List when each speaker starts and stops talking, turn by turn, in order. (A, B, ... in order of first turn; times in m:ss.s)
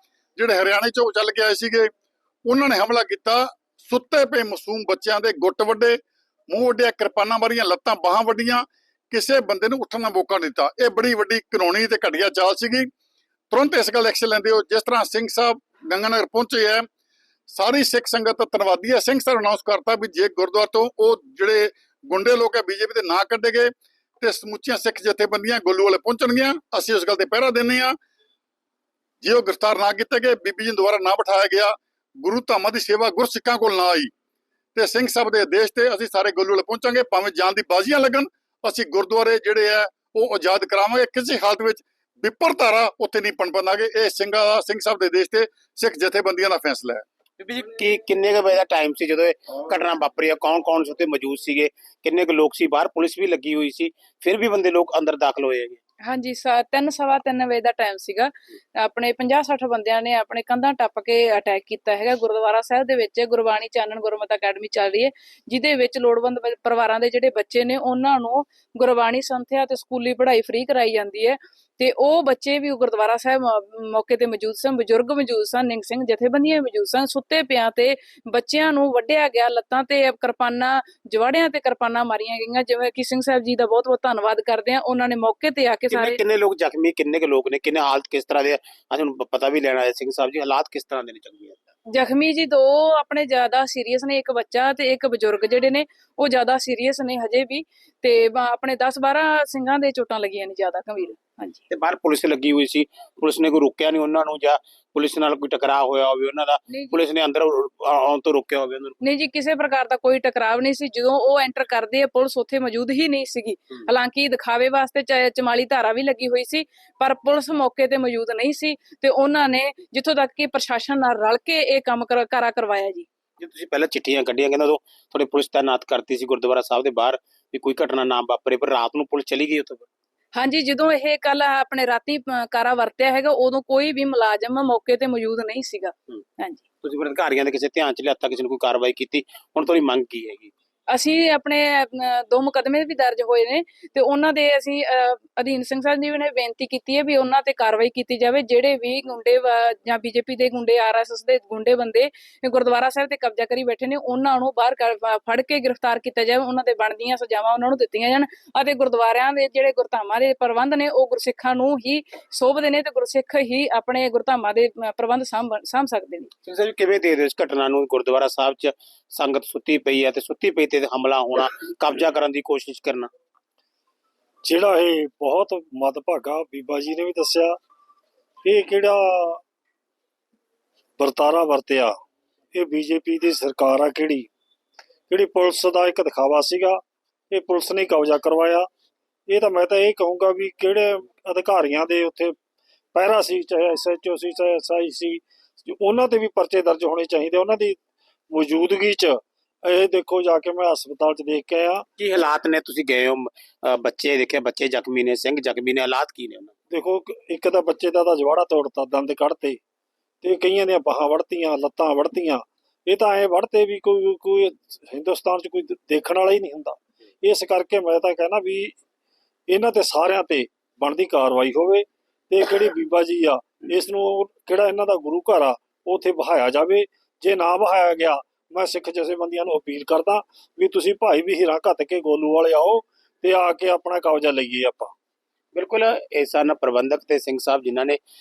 0:00.4-0:01.9 A
0:02.5-0:12.9 A
0:13.5-0:16.8 A
0:17.5-0:28.0 A
0:29.2-0:34.1 A
0:34.7-0:47.0 A
0:47.4-0:55.8 B
0:56.0-1:26.2 C
1:25.9-1:31.6 B
1:31.9-1:41.6 C
1:41.7-1:49.0 B
1:46.7-1:47.0 C
1:49.0-2:03.0 C
2:03.4-2:09.9 B
2:10.3-2:16.6 C
2:16.8-2:20.5 B
2:20.9-2:46.3 C
2:46.4-2:53.1 B
2:54.4-2:57.6 D
2:58.4-2:59.4 D
3:01.0-3:01.9 D
3:02.5-3:04.3 D
3:05.1-3:08.7 D
3:09.3-3:12.4 D
3:12.9-3:17.8 D
3:18.3-3:21.8 D
3:22.0-3:26.5 B
3:26.7-3:29.6 D
3:30.2-3:38.8 D
3:39.5-3:54.9 D
3:55.5-3:58.0 B